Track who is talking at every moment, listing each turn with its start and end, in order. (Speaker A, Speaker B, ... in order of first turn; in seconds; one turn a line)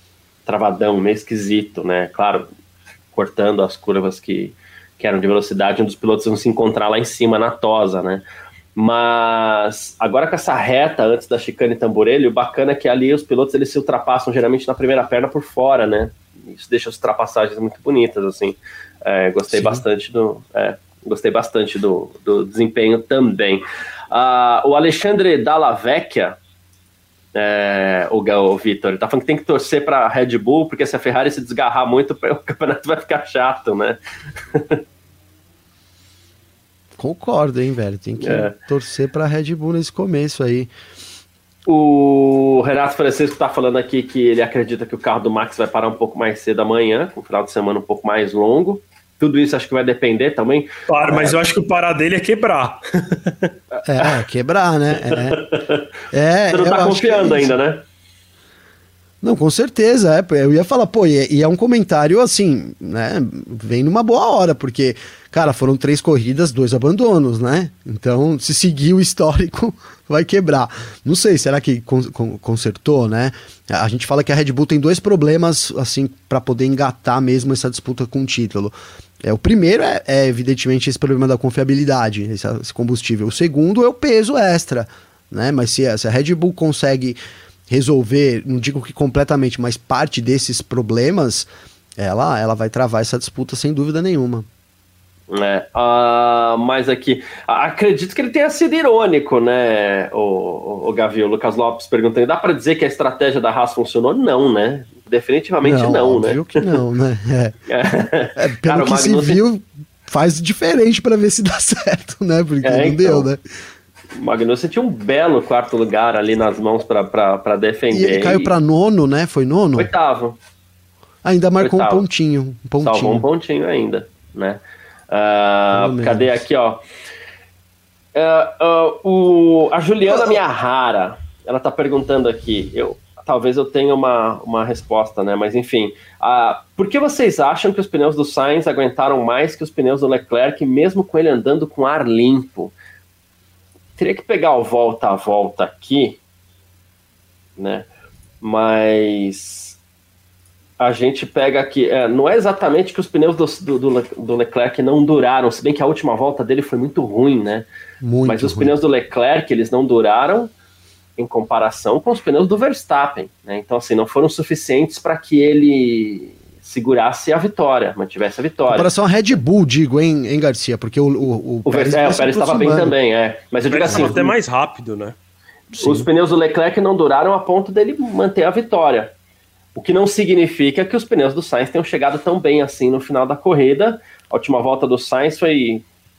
Speaker A: 0.5-2.5
Speaker A: 3.1-26.4
Speaker B: 19.5-19.8
Speaker A: 27.3-34.0
Speaker A: 34.5-34.8
Speaker C: 37.0-40.7
Speaker A: 38.2-38.6
Speaker A: 41.7-51.4
Speaker B: 50.9-53.5
Speaker C: 53.9-55.4
Speaker A: 55.0-55.9
Speaker C: 56.1-57.6
Speaker A: 56.5-57.8
Speaker C: 59.2-87.2
Speaker C: 87.7-94.5
Speaker A: 95.3-106.7
Speaker C: 105.6-107.5
Speaker A: 107.7-109.4
Speaker C: 108.4-113.4
Speaker A: 112.6-113.3
Speaker A: 114.2-118.5
Speaker C: 117.9-119.9
Speaker A: 119.8-120.4
Speaker C: 121.2-123.2
Speaker A: 121.6-122.0
Speaker A: 122.8-126.8
Speaker C: 125.7-126.4
Speaker A: 128.2-142.8
Speaker A: 144.0-146.2
Speaker A: 147.6-147.9
Speaker A: 148.4-149.8
Speaker A: 150.8-157.7
Speaker C: 158.0-158.7
Speaker A: 158.2-160.5
Speaker A: 161.2-168.9
Speaker C: 168.7-173.0
Speaker A: 171.7-174.3
Speaker B: 173.7-175.2
Speaker C: 173.9-174.2
Speaker C: 175.7-176.1
Speaker A: 175.8-179.1
Speaker A: 179.8-185.8